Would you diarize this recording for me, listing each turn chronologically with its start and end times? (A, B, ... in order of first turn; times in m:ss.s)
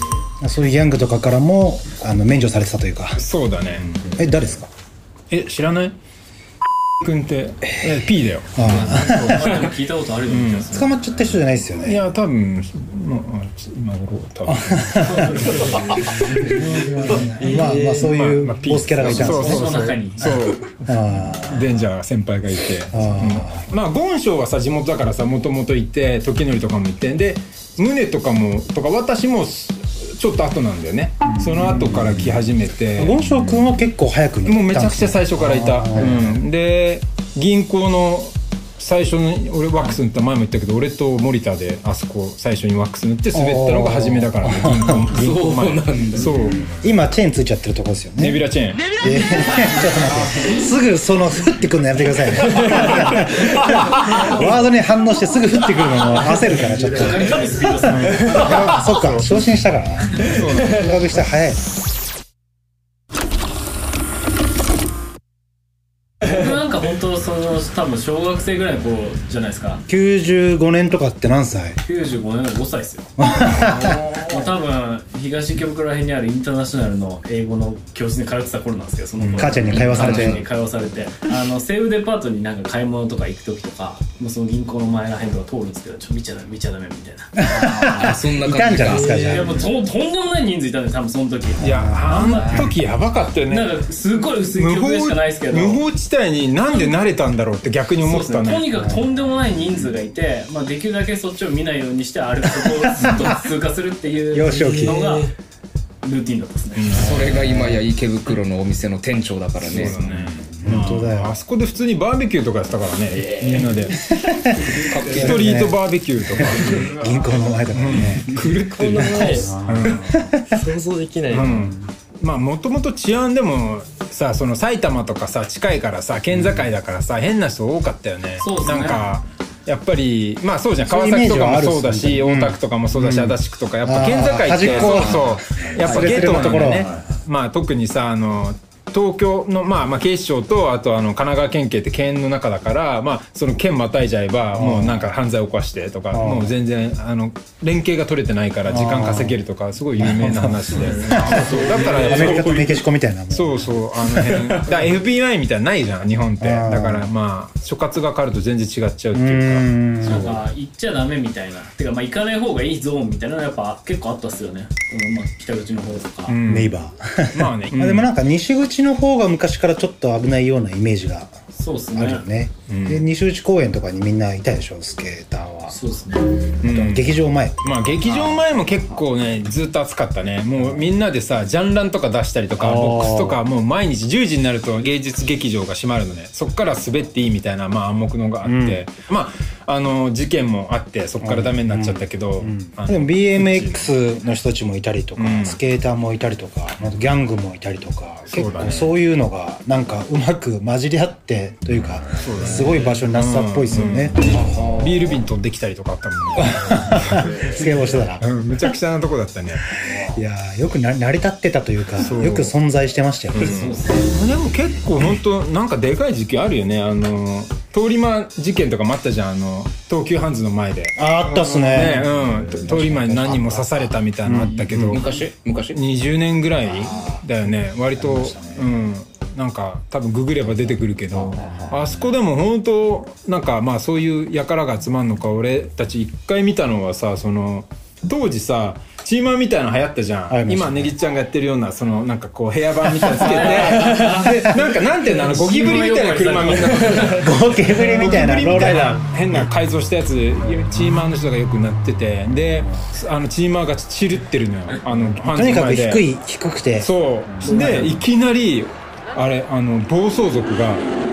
0:00.4-0:03.2 A
0:03.2-0:03.8 B
0:04.1-0:04.7 A
0:05.3-0:05.9 B
0:07.0-0:08.6 B
0:08.5-0:09.6 A
0:08.6-0:10.9 C
0:10.3-0:10.8 B
0:10.7-0:12.0 A
0:11.8-0:15.8 B
0:14.5-0:19.8 A
0:15.1-0:15.7 C
0:17.4-0:18.0 D
0:17.5-0:33.5 B
0:19.3-0:20.3 C
0:20.8-0:21.7 A
0:22.9-0:23.6 A
0:31.4-0:32.1 A
0:33.0-0:36.4 A
0:34.4-0:46.6 B
0:43.3-0:45.0 A
0:45.1-0:46.3 E
0:46.6-0:48.4 A
0:48.2-0:48.9 B
0:49.0-0:57.4 A
0:56.9-0:58.7 C
0:57.9-0:59.3 B
0:58.0-1:01.6 A
1:00.2-1:00.9 B
1:00.3-1:00.9 D
1:06.2-1:09.8 C
1:09.9-1:11.8 A
1:11.8-1:13.1 C
1:13.2-1:14.0 A
1:13.6-1:14.5 E
1:14.3-1:28.0 C
1:19.3-1:20.4 A
1:19.8-1:20.4 E
1:27.4-1:29.6 A
1:27.7-1:29.5 E
1:28.8-1:29.4 D
1:29.3-1:32.5 C
1:31.6-1:33.7 B
1:31.7-1:32.7 A
1:33.5-1:35.8 C
1:34.6-1:38.7 B
1:38.0-1:45.3 C
1:44.3-1:45.0 A
1:44.5-1:45.3 D
1:46.0-1:47.0 C
1:46.8-1:47.5 B
1:46.9-1:50.2 E
1:47.3-1:47.7 A
1:49.6-1:54.0 B
1:50.6-1:51.3 A
1:54.2-1:55.8 A
1:54.8-1:55.4 E
1:54.9-2:00.2 B
1:56.3-1:58.4 A
1:58.7-2:01.8 D
1:59.2-2:00.6 A
2:01.3-2:40.3 B
2:08.4-2:09.0 C
2:10.8-2:16.9 A
2:14.7-2:15.1 E
2:15.8-2:16.4 E
2:24.5-2:25.1 A
2:26.1-2:26.5 A
2:28.7-2:29.4 A
2:30.0-2:34.7 A
2:31.0-2:32.5 C
2:36.4-2:37.1 A
2:39.1-2:40.4 A
2:40.1-2:46.3 C
2:46.3-2:46.7 B
2:46.4-2:51.3 A
2:47.3-2:48.1 B
2:51.6-2:52.2 C
2:51.9-2:55.8 A
2:52.7-2:53.0 B
2:55.7-2:56.3 C
2:56.6-3:13.9 B
2:56.6-2:58.4 A
3:02.6-3:03.4 A
3:08.4-3:08.8 A
3:11.2-3:24.2 A
3:15.2-3:15.6 B
3:18.3-3:18.9 B
3:22.2-3:29.7 B
3:26.4-3:28.2 A
3:29.9-3:33.7 A
3:32.0-3:32.5 B
3:33.3-3:45.0 B
3:33.5-3:34.1 C
3:41.0-3:42.1 A
3:42.7-3:43.6 A
3:44.2-3:45.0 A
3:44.9-3:45.8 E
3:45.7-4:16.0 B
3:48.0-3:48.3 A
4:00.3-4:00.9 A
4:03.1-4:04.0 A
4:03.3-4:04.3 C
4:03.6-4:04.2 D
4:05.0-4:07.1 C
4:06.6-4:07.2 D
4:07.2-4:09.0 A
4:15.2-4:16.9 A
4:16.8-4:20.8 B
4:17.4-4:18.0 A